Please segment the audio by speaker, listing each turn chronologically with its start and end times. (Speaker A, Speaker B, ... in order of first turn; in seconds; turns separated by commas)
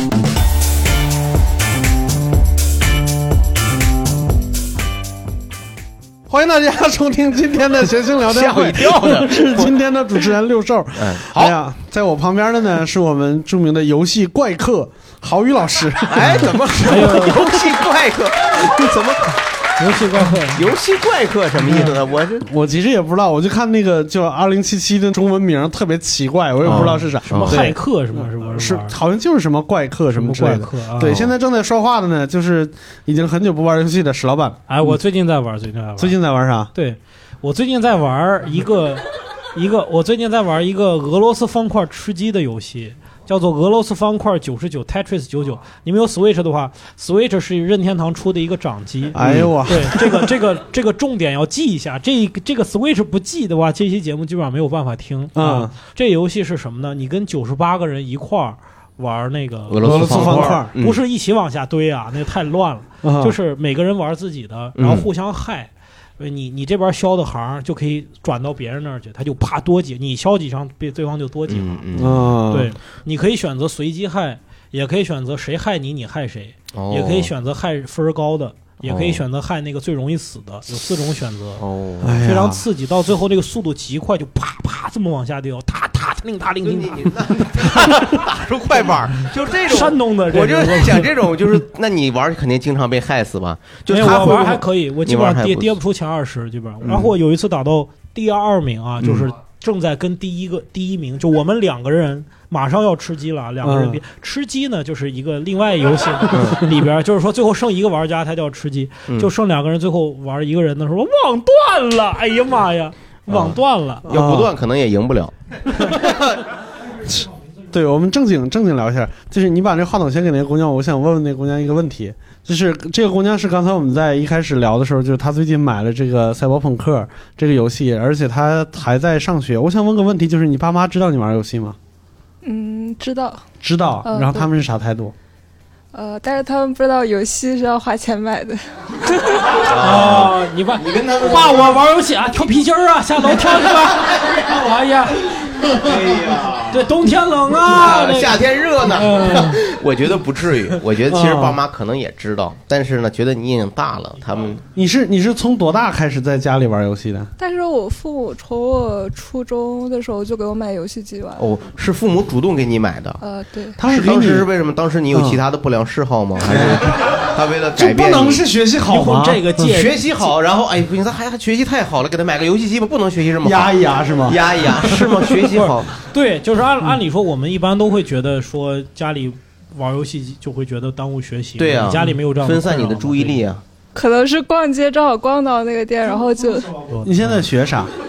Speaker A: 6.3-16.6, Speaker B: 8.2-9.7, Speaker B: 10.9-11.6, Speaker B: 16.1-19.4, Speaker C: 16.9-17.5, Speaker C: 19.8-20.7, Speaker B: 20.6-22.5, Speaker A: 22.4-34.6, Speaker B: 26.6-27.8, Speaker C: 26.7-28.9, Speaker C: 30.1-31.2, Speaker B: 31.0-31.3, Speaker C: 34.7-36.2, Speaker A: 36.0-36.7, Speaker C: 36.7-71.8, Speaker A: 49.1-50.3, Speaker B: 49.2-49.5, Speaker A: 55.4-55.7, Speaker B: 59.7-61.0, Speaker A: 59.8-60.7, Speaker A: 63.0-63.4, Speaker B: 64.8-65.1, Speaker B: 71.5-72.3, Speaker A: 72.0-72.7, Speaker C: 72.5-81.6, Speaker B: 76.7-77.3, Speaker B: 78.8-79.2, Speaker B: 81.6-82.2, Speaker A: 82.0-82.6, Speaker C: 82.2-88.2, Speaker B: 86.6-95.8, Speaker C: 89.7-91.1, Speaker C: 93.9-114.0, Speaker B: 96.8-97.1, Speaker B: 99.0-99.3, Speaker A: 103.6-104.0, Speaker B: 106.3-106.6, Speaker B: 114.1-115.3, Speaker A: 114.1-114.5, Speaker A: 117.7-131.8, Speaker D: 132.4-133.4, Speaker A: 133.6-135.1, Speaker D: 134.1-134.5, Speaker D: 135.9-138.6, Speaker C: 139.6-145.9, Speaker B: 139.7-141.8, Speaker B: 145.7-146.9, Speaker C: 146.7-149.6, Speaker B: 147.6-154.6, Speaker A: 151.1-151.6, Speaker A: 154.8-157.3, Speaker D: 157.4-161.4, Speaker B: 161.4-163.2, Speaker D: 163.2-163.8, Speaker A: 163.8-164.5, Speaker B: 163.8-168.4, Speaker A: 165.1-165.4, Speaker A: 166.5-166.8, Speaker A: 167.8-169.7, Speaker C: 168.9-170.0, Speaker B: 169.6-175.9, Speaker A: 173.4-175.2, Speaker C: 175.6-183.4, Speaker B: 181.6-183.6, Speaker D: 183.9-186.8, Speaker A: 187.0-187.9